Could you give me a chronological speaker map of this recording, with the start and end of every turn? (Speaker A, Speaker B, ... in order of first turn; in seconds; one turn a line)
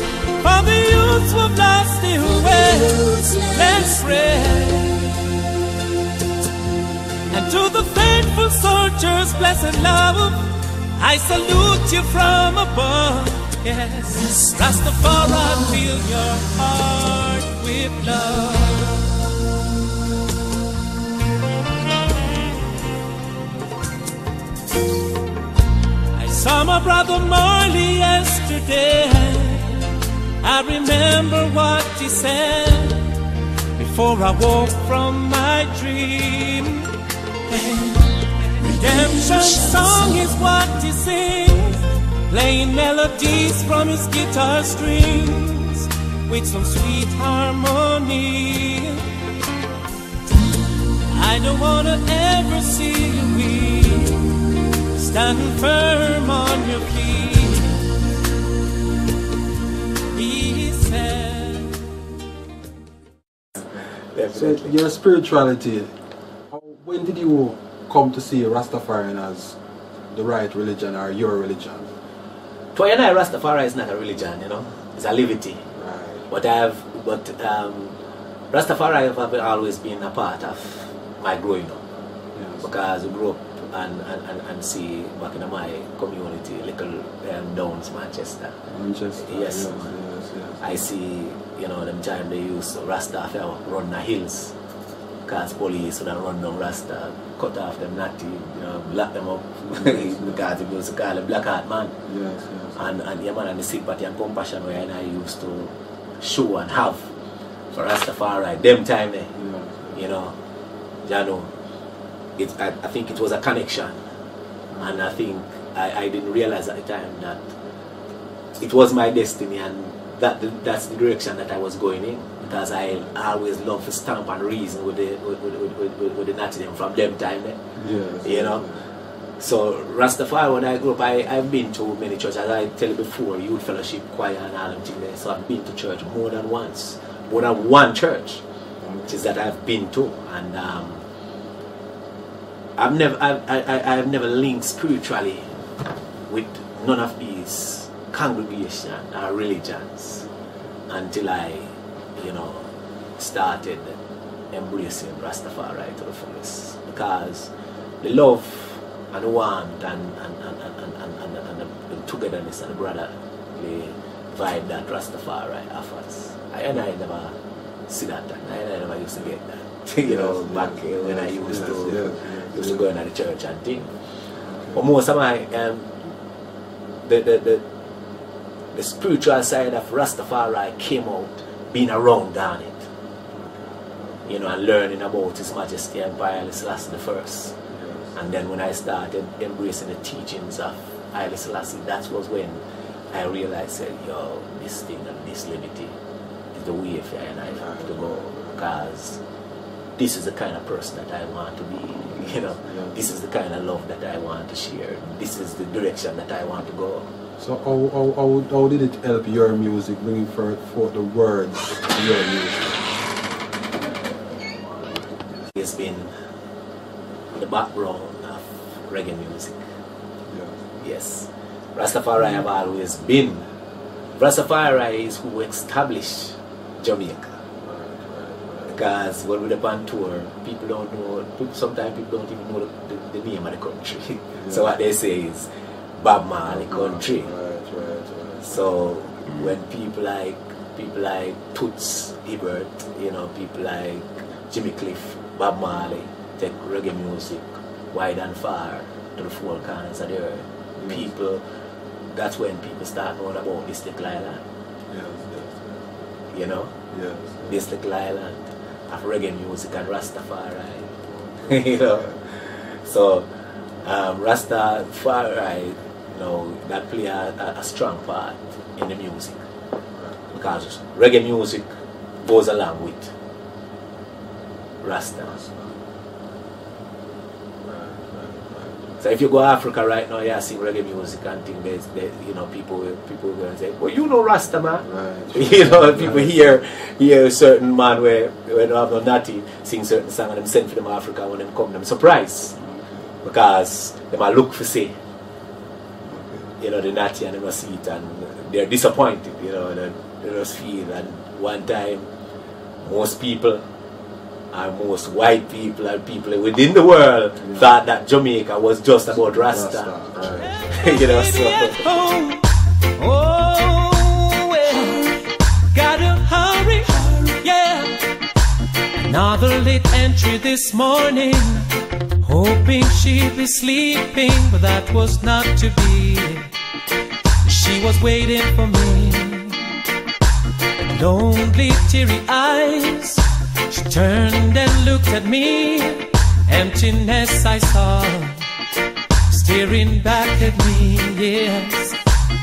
Speaker A: 0.4-5.1
Speaker A: 7.3-19.1
Speaker A: 26.1-29.8
Speaker A: 30.4-33.1
Speaker A: 33.8-36.9
Speaker A: 37.5-49.0
Speaker A: 51.1-54.3
Speaker A: 54.9-57.8
Speaker A: 60.1-61.8
Speaker B: 64.1-64.8
Speaker C: 64.3-65.9
Speaker C: 66.5-69.6
Speaker C: 70.1-71.9
Speaker B: 72.7-75.6
Speaker C: 75.7-76.3
Speaker B: 76.3-78.0
Speaker B: 78.5-81.8
Speaker C: 82.3-82.7
Speaker B: 82.6-88.5
Speaker C: 88.7-90.9
Speaker B: 89.2-89.9
Speaker B: 90.6-94.5
Speaker B: 95.2-102.0
Speaker C: 99.7-100.5
Speaker C: 102.0-102.9
Speaker B: 102.8-107.1
Speaker B: 107.7-109.3
Speaker C: 109.3-110.0
Speaker B: 109.9-110.3
Speaker B: 111.0-111.5
Speaker B: 112.4-114.0
Speaker C: 114.7-115.2
Speaker B: 114.8-117.5
Speaker B: 118.6-127.6
Speaker C: 122.4-123.1
Speaker C: 127.8-128.8
Speaker B: 128.2-128.6
Speaker B: 129.4-138.4
Speaker C: 138.8-139.4
Speaker B: 139.1-141.0
Speaker B: 142.8-145.5
Speaker B: 146.3-150.2
Speaker C: 150.3-150.7
Speaker B: 150.9-153.9
Speaker B: 154.5-167.3
Speaker B: 167.9-173.9
Speaker C: 170.0-172.9
Speaker C: 174.4-174.8
Speaker B: 174.7-176.1
Speaker B: 177.0-177.6
Speaker B: 178.7-182.8
Speaker C: 183.3-184.5
Speaker B: 184.2-187.6
Speaker C: 187.7-188.2
Speaker B: 188.1-195.9
Speaker B: 196.5-199.2
Speaker C: 197.4-198.6
Speaker B: 200.0-207.1
Speaker C: 202.0-203.2
Speaker C: 207.4-213.0
Speaker B: 215.5-216.1
Speaker B: 217.3-219.6
Speaker C: 220.3-220.6
Speaker B: 220.8-223.5
Speaker B: 224.2-227.4
Speaker C: 227.6-228.9
Speaker B: 228.7-237.3
Speaker C: 234.3-234.7
Speaker C: 236.4-239.3
Speaker B: 238.4-251.4
Speaker C: 250.8-251.1
Speaker B: 252.1-254.4
Speaker C: 254.9-256.1
Speaker B: 256.3-256.7
Speaker C: 256.9-257.6
Speaker B: 257.5-260.9
Speaker C: 261.1-262.2
Speaker B: 261.4-263.3
Speaker B: 263.8-269.4
Speaker C: 269.9-270.6
Speaker B: 270.3-273.1
Speaker B: 274.8-275.4
Speaker C: 275.2-275.8
Speaker C: 277.6-279.0
Speaker B: 279.0-292.5
Speaker C: 284.8-286.6
Speaker C: 292.6-293.1
Speaker B: 293.2-294.9
Speaker C: 296.0-296.5
Speaker B: 296.6-302.1
Speaker B: 302.8-303.6
Speaker B: 304.5-311.8
Speaker C: 307.4-307.8
Speaker C: 309.1-310.7
Speaker A: 310.3-318.0
Speaker A: 319.0-321.7
Speaker A: 322.2-326.5
Speaker A: 327.4-329.6
Speaker A: 330.8-338.4
Speaker A: 339.3-342.0